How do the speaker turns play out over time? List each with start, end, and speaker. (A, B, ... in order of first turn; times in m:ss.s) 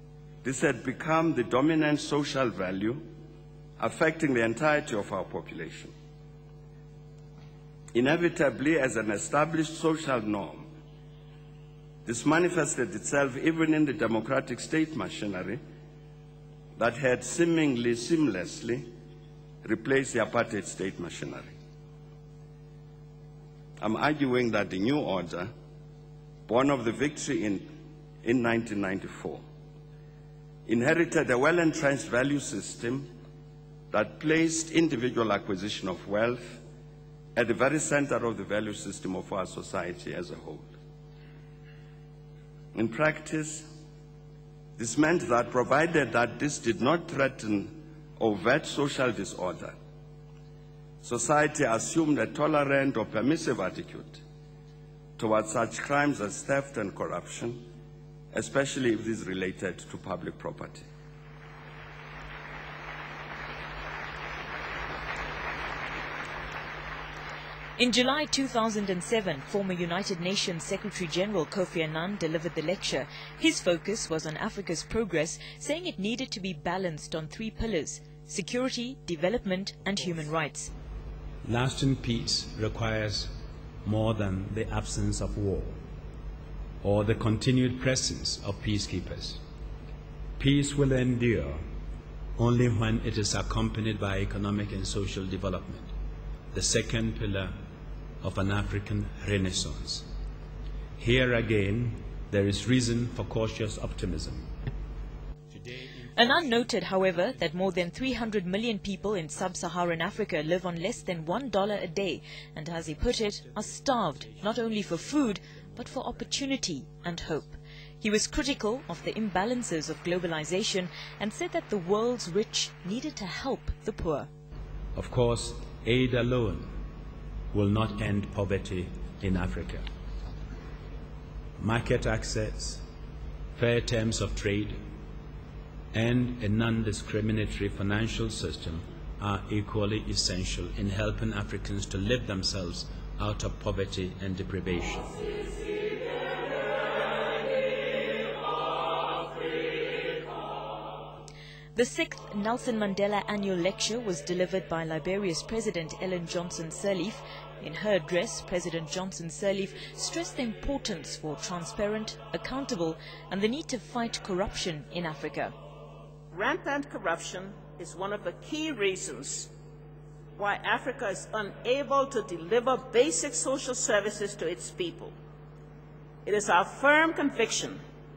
0:00.4-0:03.1 A
0:03.8-0:05.9 A
0:07.9-0:10.7 A
0:12.0-0:15.6 A
0:16.8-0:18.9 A
0:19.6-0:21.5 A
0:23.8-0:25.5 A
0:26.5-0:29.4 A
0:30.7-0:33.1 A
0:33.9-0:36.6 A
0:37.4-0:40.7 A
0:42.7-0:43.7 A
0:44.8-0:49.8 A
0:51.0-0:54.2 A
0:55.2-0:57.7 A
0:58.3-1:00.9 A
1:07.8-1:20.7 B
1:21.4-1:25.8 C
1:26.8-1:29.4 C
1:30.4-1:31.6 C
1:32.4-1:35.9 C
1:36.5-1:37.5 C
1:38.2-1:40.1 C
1:41.0-1:44.5 C
1:45.5-1:46.6 C
1:46.2-2:04.3 B
1:47.3-1:48.0 C
1:53.0-1:56.4 C
2:05.0-2:06.7 C
2:07.5-2:09.8 C
2:11.6-2:12.8 C
2:13.6-2:14.8 C
2:15.9-2:25.3 C
2:31.8-2:45.5 B
2:46.3-2:49.5 D
2:50.4-2:55.2 D
2:56.2-2:57.8 D